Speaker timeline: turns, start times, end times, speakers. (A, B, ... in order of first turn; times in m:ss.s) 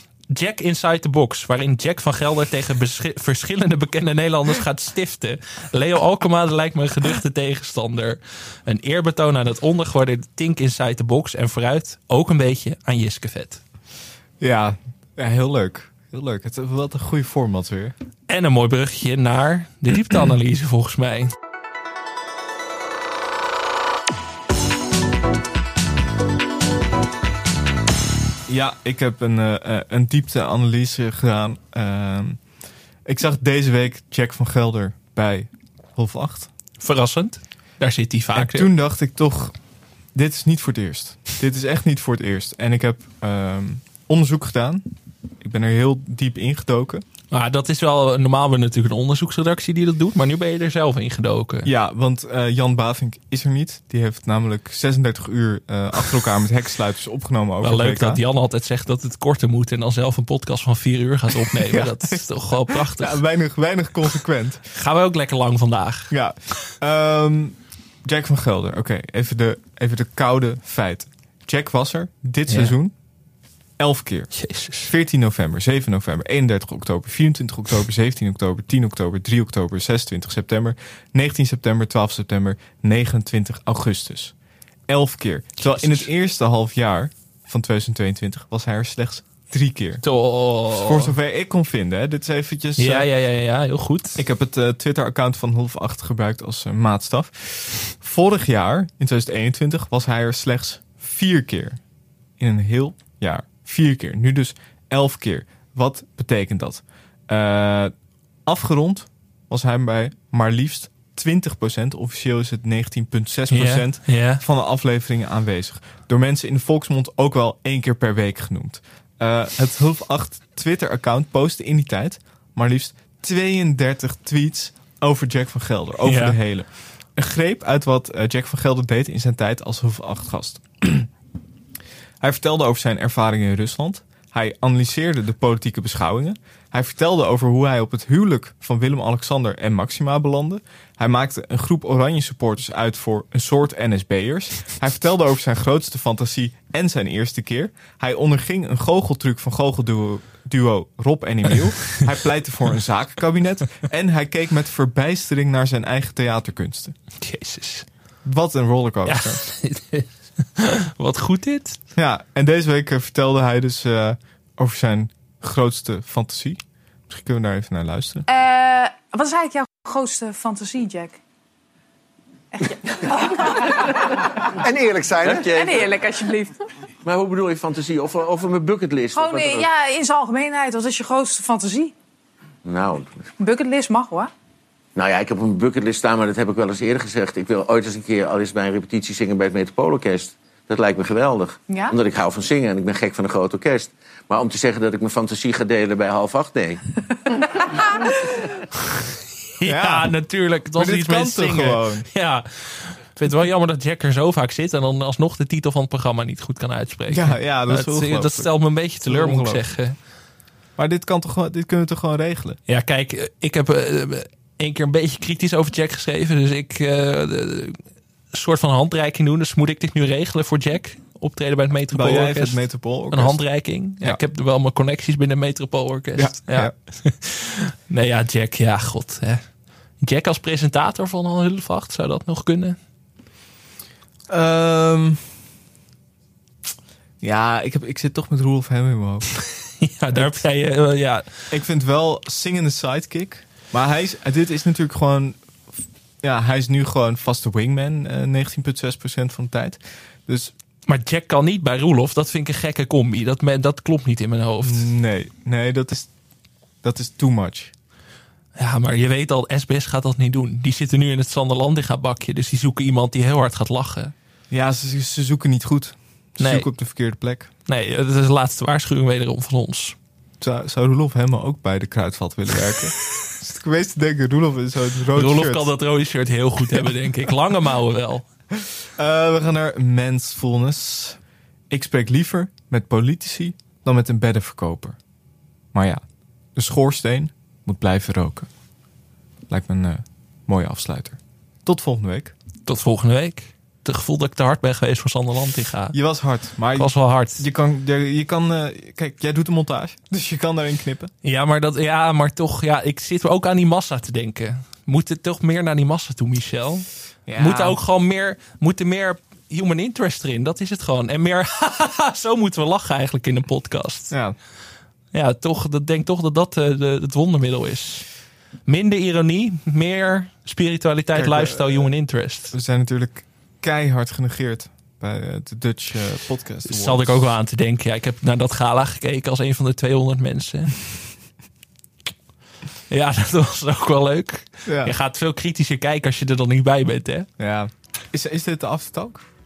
0:00.3-0:13.6 A
0:14.4-0:18.0 B
0:18.3-0:21.3 A
0:28.5-0:32.4 B
0:33.1-0:36.5 B
0:36.8-0:38.7 A
0:38.4-0:39.6 B
0:40.2-0:44.8 B
0:45.4-0:47.0 B
0:47.3-0:51.7 A
0:51.6-0:58.2 B
0:57.6-1:03.2 A
1:01.6-1:04.7 B
1:04.7-1:06.1 A
1:06.1-1:12.9 B
1:12.5-1:12.8 A
1:13.8-1:24.3 B
1:14.4-1:14.9 A
1:24.9-1:30.0 B
1:25.6-1:26.1 A
1:30.0-1:31.1 A
1:30.7-1:33.1 B
1:32.8-1:34.2 A
1:34.2-1:41.8 B
1:42.4-1:47.9 B
1:48.4-2:11.1 B
1:53.5-1:54.4 A
2:06.0-2:06.4 A
2:12.2-2:37.0 B
2:37.2-2:37.9 A
2:38.2-2:39.4 B
2:39.1-2:41.8 A
2:42.0-2:48.2 B
2:48.3-2:51.2 C
2:52.6-2:54.4 C
2:54.6-2:55.9 D
2:55.4-2:56.6 C
2:57.0-2:59.7 D
2:59.1-3:01.9 C
3:02.6-3:03.2 D
3:03.4-3:04.3 C
3:05.0-3:16.8 D
3:11.7-3:11.9 C
3:17.7-3:17.9 C
3:19.6-3:30.0 A
3:19.6-3:20.1 B
3:20.8-3:22.1 B
3:27.1-3:29.7 B
3:30.8-3:32.6 B
3:32.7-3:49.4 A
3:41.9-3:43.4 B
3:46.2-3:46.7 B
3:50.0-3:52.8 A
3:54.3-3:55.3 B
3:57.2-3:59.3 B
3:59.8-4:01.3 A
4:01.5-4:05.4 B
4:06.2-4:10.5 B
4:10.9-4:14.9 A
4:14.6-4:16.1 B
4:16.8-4:17.7 B
4:18.6-4:24.1 A
4:24.5-4:27.5 B
4:26.4-4:26.7 A
4:27.7-4:30.0 A
4:30.4-4:35.7 B
4:35.1-4:38.3 A
4:38.6-4:45.0 B
4:45.7-4:46.0 B
4:46.6-4:48.5 B
4:49.5-4:52.3 B
4:52.6-4:56.0 A
4:55.9-5:01.1 B
4:56.7-4:57.4 A
5:01.2-5:14.2 A
5:07.3-5:07.8 B
5:14.1-5:14.4 B
5:15.1-5:18.1 A
5:18.7-5:22.5 A
5:21.1-5:21.9 B
5:22.5-5:27.3 B
5:26.7-5:30.8 A
5:32.9-5:37.3 A
5:34.7-5:35.0 B
5:37.4-5:39.2 B